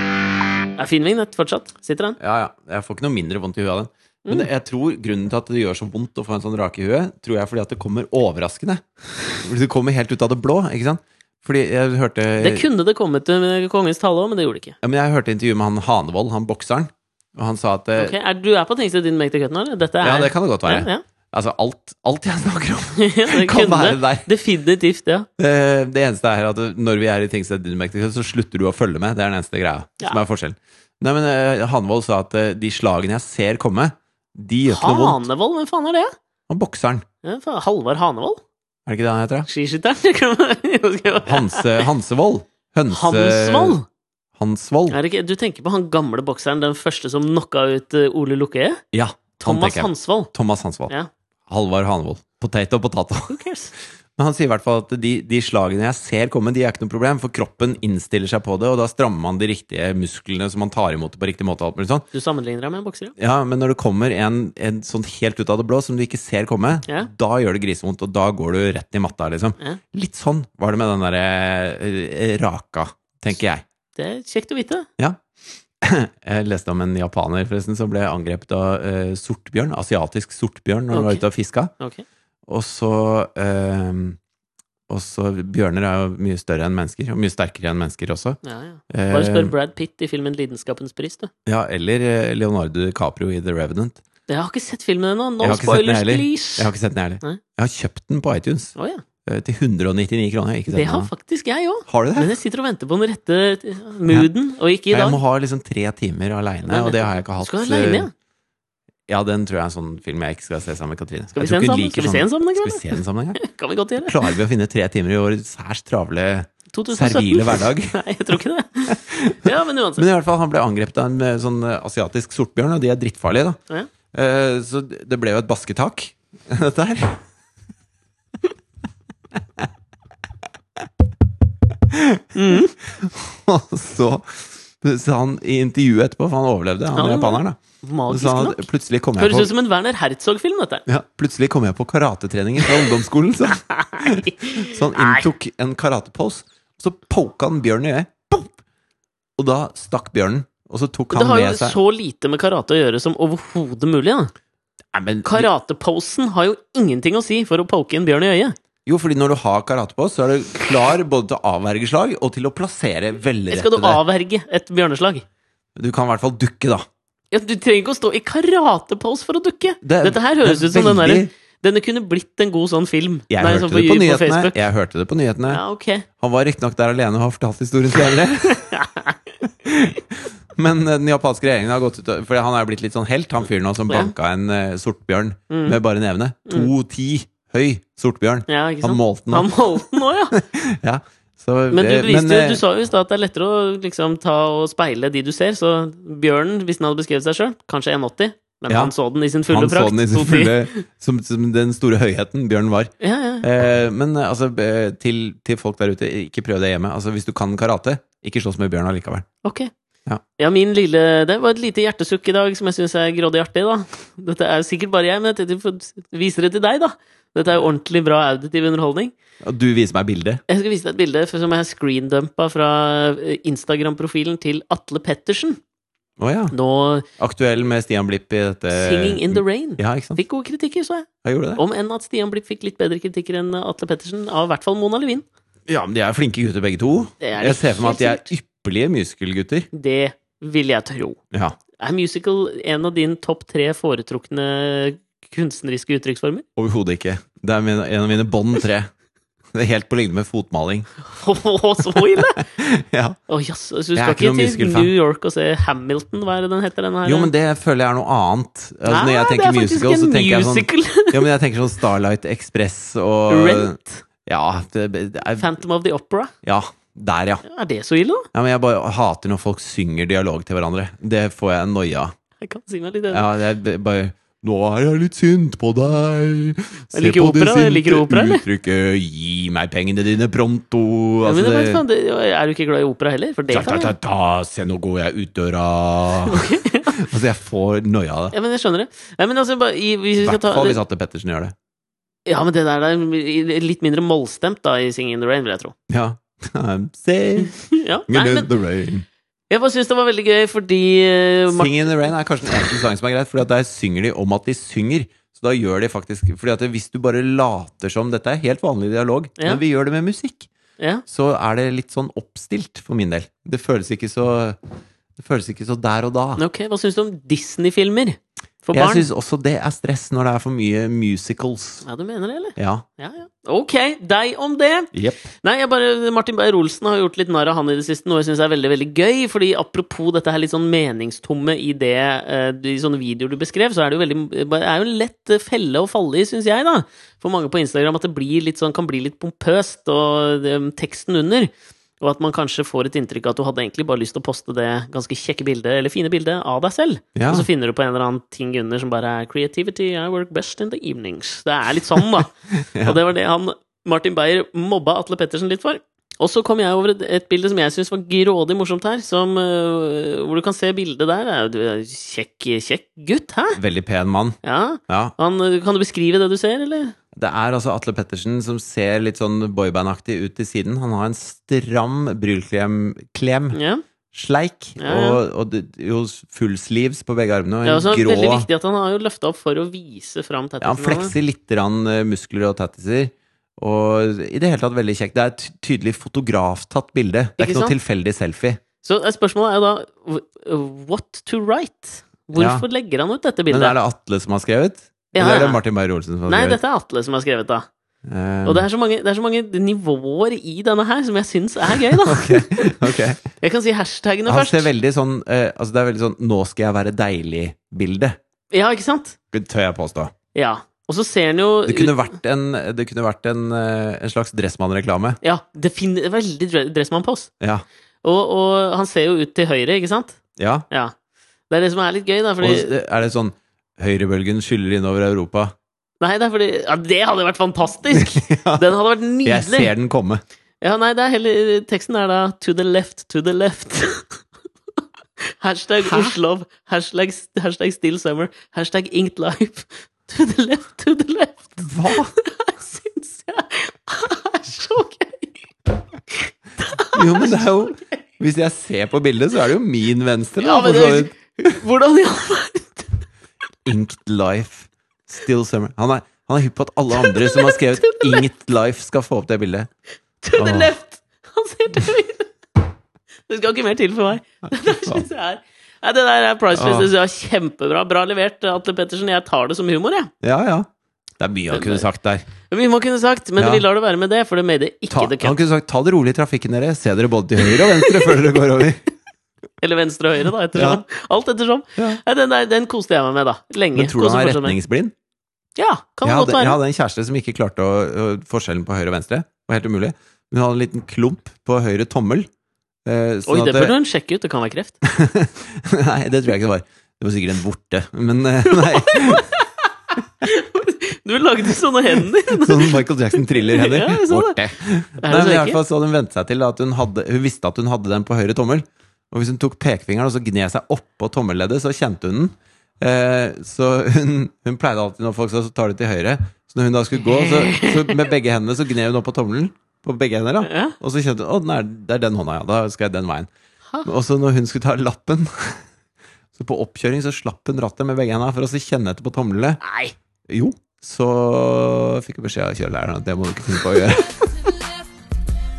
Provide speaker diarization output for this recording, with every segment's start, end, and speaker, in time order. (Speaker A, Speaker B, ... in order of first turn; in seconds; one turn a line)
Speaker A: 0.8-2.2
Speaker B: 2.2-12.7
Speaker A: 12.4-14.8
Speaker B: 14.8-18.1
Speaker A: 17.9-21.0
Speaker B: 20.0-24.3
Speaker A: 23.0-25.3
Speaker B: 25.4-35.2
Speaker A: 34.7-36.1
Speaker B: 36.5-37.0
Speaker A: 37.2-38.4
Speaker B: 38.9-39.5
Speaker A: 39.5-41.9
Speaker B: 41.2-43.8
Speaker A: 42.9-43.9
Speaker B: 44.4-45.0
Speaker A: 44.9-48.8
Speaker B: 48.9-50.9
Speaker A: 49.4-50.3
Speaker B: 51.5-53.4
Speaker A: 53.3-53.7
Speaker B: 54.2-62.1
Speaker A: 62.1-63.1
Speaker B: 63.2-73.6
Speaker A: 74.0-74.9
Speaker B: 75.0-75.2
Speaker B: 75.8-81.7
Speaker A: 80.9-81.2
Speaker A: 81.8-82.0
Speaker B: 82.5-84.2
Speaker B: 84.9-88.4
Speaker A: 88.4-91.3
Speaker B: 88.9-89.5
Speaker B: 91.5-94.0
Speaker A: 94.3-96.7
Speaker B: 95.4-98.7
Speaker A: 98.8-99.0
Speaker B: 99.3-101.1
Speaker A: 100.7-105.2
Speaker B: 101.9-102.3
Speaker B: 104.9-108.1
Speaker A: 106.7-108.1
Speaker B: 109.1-113.4
Speaker A: 111.4-114.3
Speaker B: 114.0-118.0
Speaker A: 116.7-120.0
Speaker B: 118.9-123.6
Speaker B: 124.1-127.2
Speaker B: 131.9-137.6
Speaker A: 132.3-132.7
Speaker A: 136.9-138.7
Speaker B: 138.1-139.5
Speaker A: 139.2-140.9
Speaker B: 140.9-148.5
Speaker A: 142.6-142.9
Speaker A: 143.5-145.3
Speaker B: 149.4-151.8
Speaker A: 151.1-154.3
Speaker B: 154.9-155.5
Speaker A: 155.2-158.6
Speaker B: 158.9-164.0
Speaker A: 163.5-165.2
Speaker B: 165.8-166.9
Speaker A: 167.3-174.6
Speaker B: 169.8-171.3
Speaker B: 173.3-175.6
Speaker A: 175.5-176.1
Speaker B: 176.2-178.8
Speaker A: 178.6-179.2
Speaker B: 179.6-192.6
Speaker A: 185.5-185.8
Speaker A: 188.5-190.4
Speaker A: 191.7-200.8
Speaker B: 198.7-198.9
Speaker B: 199.5-209.3
Speaker A: 203.0-203.4
Speaker A: 209.4-209.7
Speaker A: 210.4-219.1
Speaker B: 219.4-220.4
Speaker A: 220.5-225.6
Speaker B: 226.2-226.5
Speaker A: 226.5-227.1
Speaker B: 227.2-230.2
Speaker A: 228.7-235.2
Speaker B: 231.2-231.6
Speaker B: 235.7-239.7
Speaker A: 237.2-238.3
Speaker A: 239.7-241.2
Speaker B: 241.3-241.6
Speaker A: 241.8-246.4
Speaker B: 246.6-248.9
Speaker B: 249.5-250.9
Speaker A: 251.1-252.4
Speaker B: 251.9-253.2
Speaker A: 253.3-257.3
Speaker B: 253.9-254.9
Speaker B: 257.1-265.5
Speaker A: 258.9-261.3
Speaker A: 263.3-264.0
Speaker A: 265.4-266.3
Speaker B: 266.4-267.4
Speaker A: 267.4-268.3
Speaker B: 268.3-272.1
Speaker A: 272.4-273.3
Speaker B: 273.1-281.8
Speaker A: 276.9-278.4
Speaker A: 281.2-283.9
Speaker B: 283.5-288.4
Speaker A: 286.3-287.0
Speaker A: 288.3-290.8
Speaker B: 290.2-291.6
Speaker A: 292.3-295.7
Speaker B: 295.9-299.1
Speaker A: 297.4-298.5
Speaker A: 299.5-301.9
Speaker B: 301.5-310.5
Speaker A: 310.8-311.0
Speaker B: 311.1-314.6
Speaker B: 315.2-316.4
Speaker A: 316.4-319.1
Speaker B: 318.7-321.9
Speaker A: 321.9-363.6
Speaker B: 322.6-322.9
Speaker B: 324.9-325.3
Speaker B: 347.1-347.5
Speaker B: 352.7-353.0
Speaker B: 363.6-365.1
Speaker A: 364.4-366.9
Speaker B: 367.1-373.6
Speaker A: 373.5-373.8
Speaker B: 374.1-378.5
Speaker A: 374.8-375.2
Speaker A: 377.6-381.1
Speaker B: 380.6-388.6
Speaker A: 387.4-387.7
Speaker A: 388.8-393.8
Speaker B: 392.3-392.6
Speaker B: 393.5-396.6
Speaker A: 395.1-395.6
Speaker A: 396.3-397.7
Speaker B: 398.1-398.7
Speaker A: 398.4-404.7
Speaker B: 401.8-403.2
Speaker B: 404.3-408.2
Speaker A: 408.5-409.2
Speaker B: 409.3-410.1
Speaker A: 410.3-412.0
Speaker B: 411.7-415.2
Speaker A: 415.2-417.3
Speaker A: 418.0-420.2
Speaker B: 420.4-420.7
Speaker A: 421.5-422.7
Speaker B: 422.4-425.5
Speaker A: 426.0-429.7
Speaker B: 427.9-428.7
Speaker B: 429.2-430.2
Speaker A: 430.6-434.2
Speaker A: 435.2-445.4
Speaker B: 435.8-436.2
Speaker B: 441.6-442.1
Speaker A: 446.1-448.0
Speaker B: 446.9-451.6
Speaker A: 450.4-453.1
Speaker B: 453.6-459.7
Speaker A: 456.9-458.3
Speaker A: 460.2-462.3
Speaker B: 460.4-460.7
Speaker A: 463.3-470.1
Speaker B: 464.7-465.0
Speaker B: 466.5-466.9
Speaker B: 470.2-472.3
Speaker A: 471.5-471.9
Speaker A: 472.5-475.4
Speaker B: 473.4-473.6
Speaker B: 474.9-478.8
Speaker A: 477.4-478.2
Speaker A: 479.6-484.6
Speaker B: 480.5-480.8
Speaker B: 483.7-484.9
Speaker A: 485.6-486.6
Speaker B: 486.0-492.3
Speaker B: 492.9-493.8
Speaker A: 493.3-494.8
Speaker B: 494.8-499.3
Speaker A: 498.5-499.5
Speaker A: 500.2-504.4
Speaker B: 502.3-523.3
Speaker A: 505.0-505.6
Speaker A: 517.0-518.1
Speaker A: 520.4-520.8
Speaker B: 523.8-525.6
Speaker B: 526.4-529.6
Speaker A: 529.6-529.9
Speaker B: 530.3-534.4